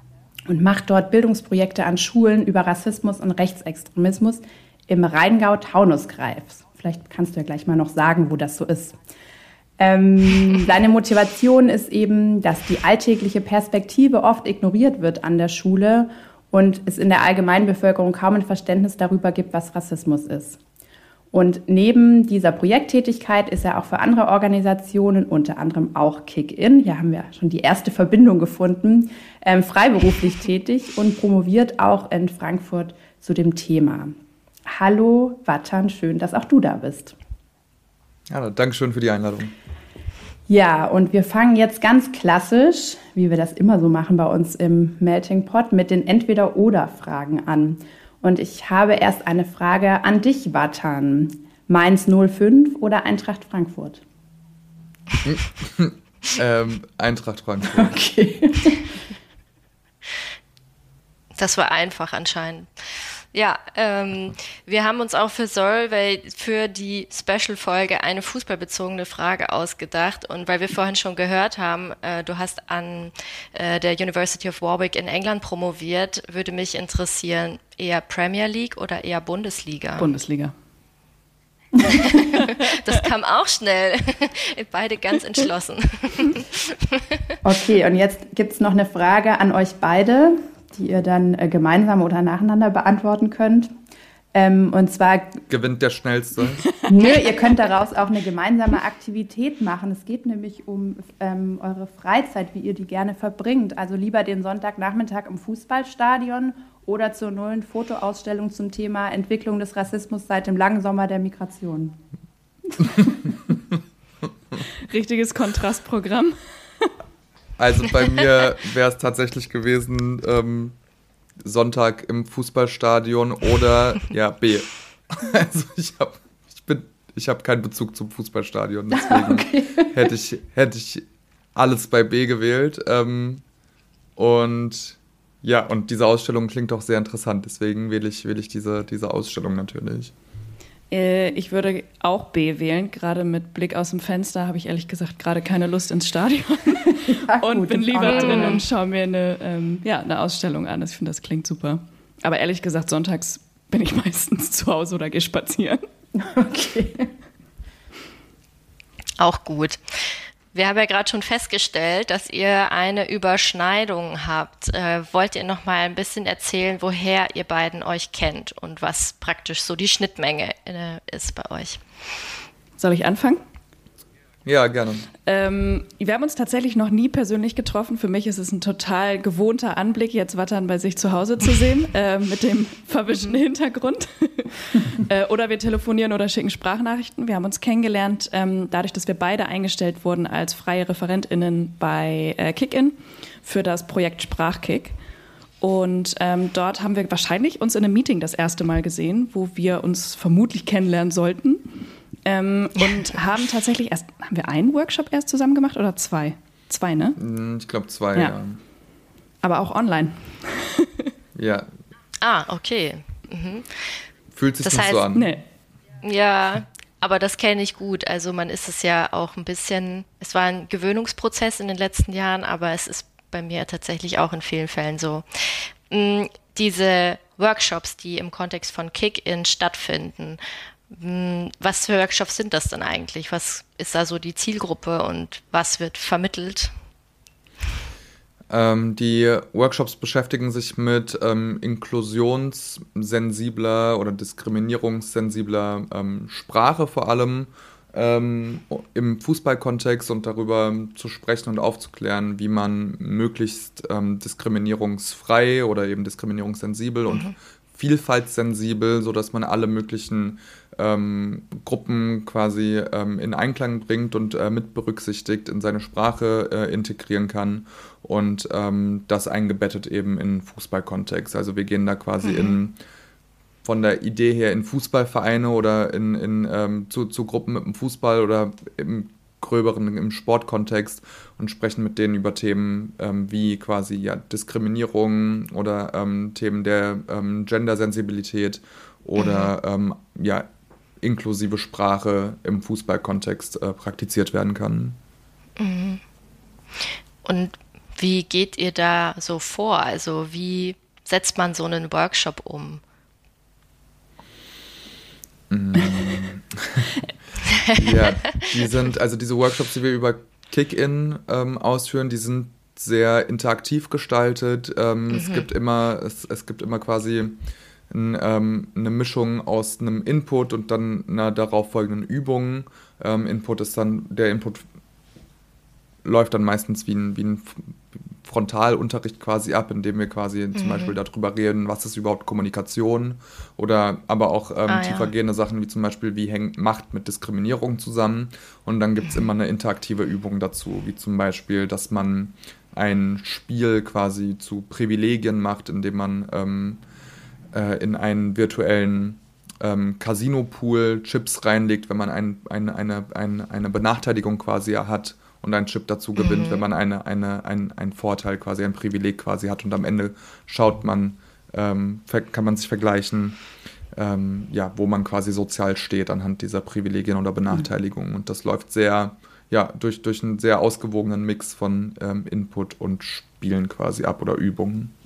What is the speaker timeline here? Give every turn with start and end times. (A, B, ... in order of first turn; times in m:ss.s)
0:00.5-0:09.0 A
0:09.8-0:20.6 A
0:21.3-0:34.2 A
0:34.7-0:37.2 A
0:38.3-0:39.5 B
0:40.5-0:54.0 A
0:55.2-0:58.0 B
0:57.7-0:58.8 A
1:01.4-1:20.1 C
1:20.0-1:20.5 D
1:22.2-1:27.0 C
1:27.4-1:33.7 A
1:34.3-1:35.4 A
1:35.5-1:36.6 B
1:36.9-1:52.0 A
1:54.9-1:56.9 D
1:57.6-2:00.8 B
2:01.4-2:13.4 B
2:08.9-2:09.9 A
2:14.2-2:20.1 B
2:20.9-2:35.8 D
2:26.9-2:28.6 A
2:28.0-2:28.6 C
2:36.2-2:37.1 A
2:39.2-2:39.8 C
2:40.5-2:51.8 C
2:52.8-2:53.4 D
2:54.4-2:55.1 B
2:55.3-3:15.0 D
3:15.6-3:21.6 D
3:22.2-3:27.2 D
3:27.2-3:28.6 B
3:29.4-3:31.1 D
3:31.4-3:31.7 B
3:32.2-3:34.1 C
3:34.4-3:35.4 B
3:34.6-3:35.1 C
3:35.2-3:35.4 D
3:36.0-3:56.7 C
3:58.5-4:32.8 B
4:32.2-4:32.6 C
4:33.6-4:50.5 B
4:49.2-4:49.5 C
4:51.0-4:55.0 B
4:55.6-4:56.0 C
4:56.8-5:02.8 C
5:05.5-5:06.9 B
5:07.7-5:17.4 B
5:07.8-5:08.4 C
5:15.1-5:15.5 C
5:17.9-5:24.6 B
5:26.0-5:46.8 B
5:30.6-5:31.0 C
5:34.7-5:35.1 C
5:47.5-6:03.4 B
5:56.2-5:56.6 C
6:04.0-6:14.9 B